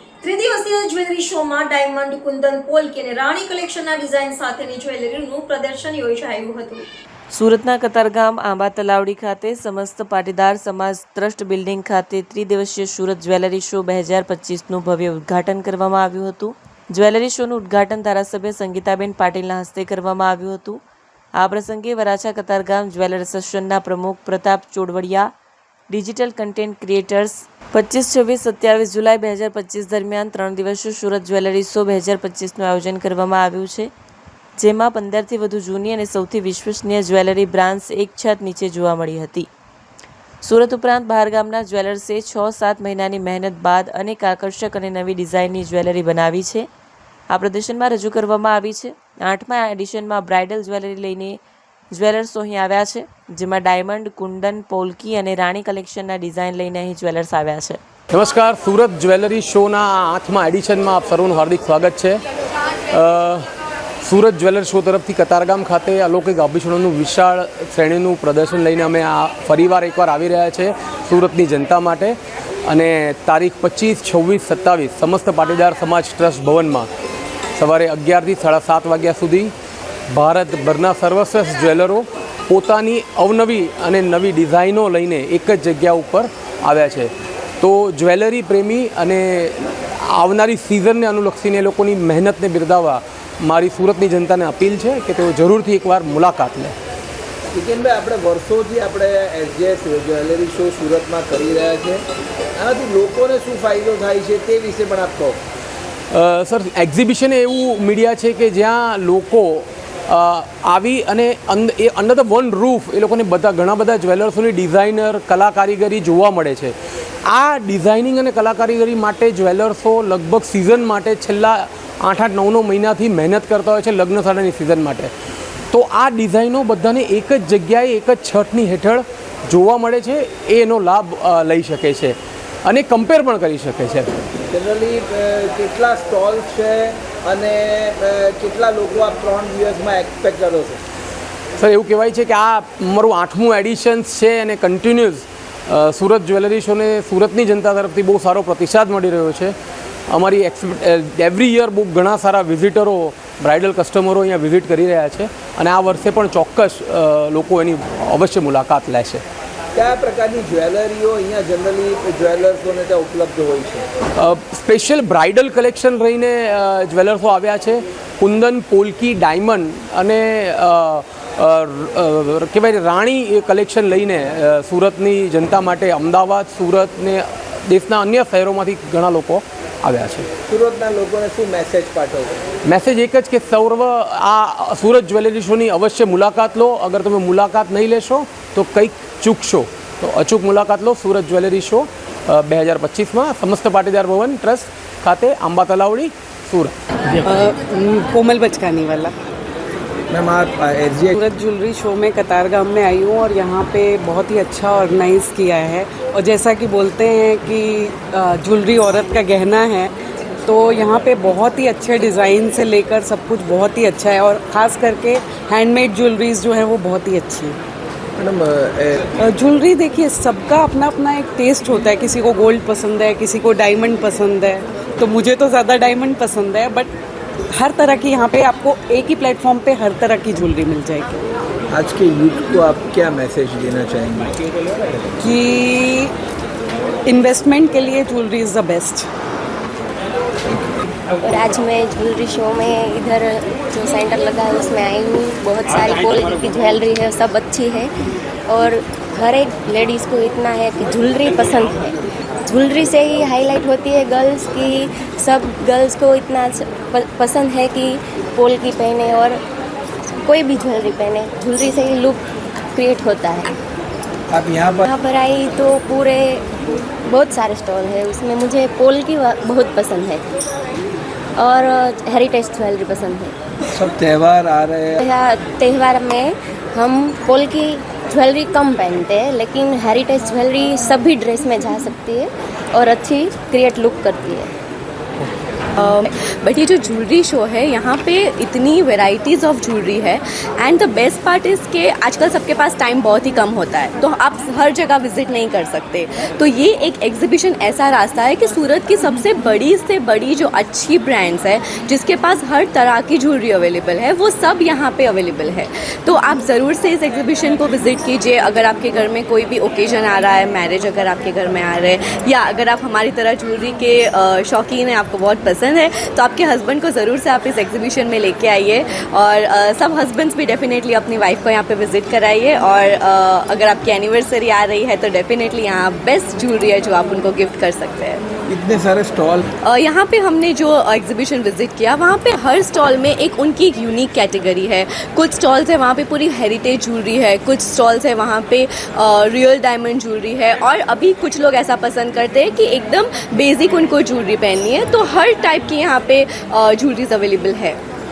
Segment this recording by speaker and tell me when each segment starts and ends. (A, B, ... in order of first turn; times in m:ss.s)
0:00.2-0:06.8 A
0:07.3-0:20.8 B
0:21.4-0:25.3 B
0:25.9-0:33.9 B
0:34.6-0:39.5 B
0:40.4-0:46.7 B
0:47.3-0:51.4 B
0:51.9-0:57.8 B
0:58.1-1:02.2 C
1:02.9-1:03.5 C
1:04.0-1:16.9 C
1:17.6-1:19.5 C
1:20.1-1:36.7 C
1:37.5-1:42.0 D
1:42.6-1:45.4 D
1:46.1-1:56.7 C
1:57.2-2:05.1 C
2:05.7-2:14.1 C
2:14.5-2:20.8 D
2:21.6-2:29.5 C
2:30.1-2:39.2 C
2:39.7-2:43.8 D
2:44.2-3:00.3 C
3:00.5-3:02.3 D
3:02.6-3:16.7 C
3:17.2-3:19.1 E
3:20.1-3:21.1 D
3:21.1-3:29.9 E
3:30.4-3:37.6 E
3:38.2-3:39.0 D
3:39.2-3:46.9 E
3:47.5-3:51.1 E
3:51.7-3:54.4 D
3:55.2-3:56.1 E
3:57.0-3:59.1 E
4:01.2-4:07.9 F
4:08.5-4:11.9 F
4:12.4-4:19.4 F
4:20.2-4:23.6 F
4:24.3-4:24.9 D
4:24.9-4:26.4 F
4:27.0-4:30.3 F
4:31.4-4:33.3 F
4:33.7-4:35.0 D
4:35.0-4:44.5 F
4:45.8-5:28.2 G
5:28.5-5:29.4 D
5:29.6-5:47.8 G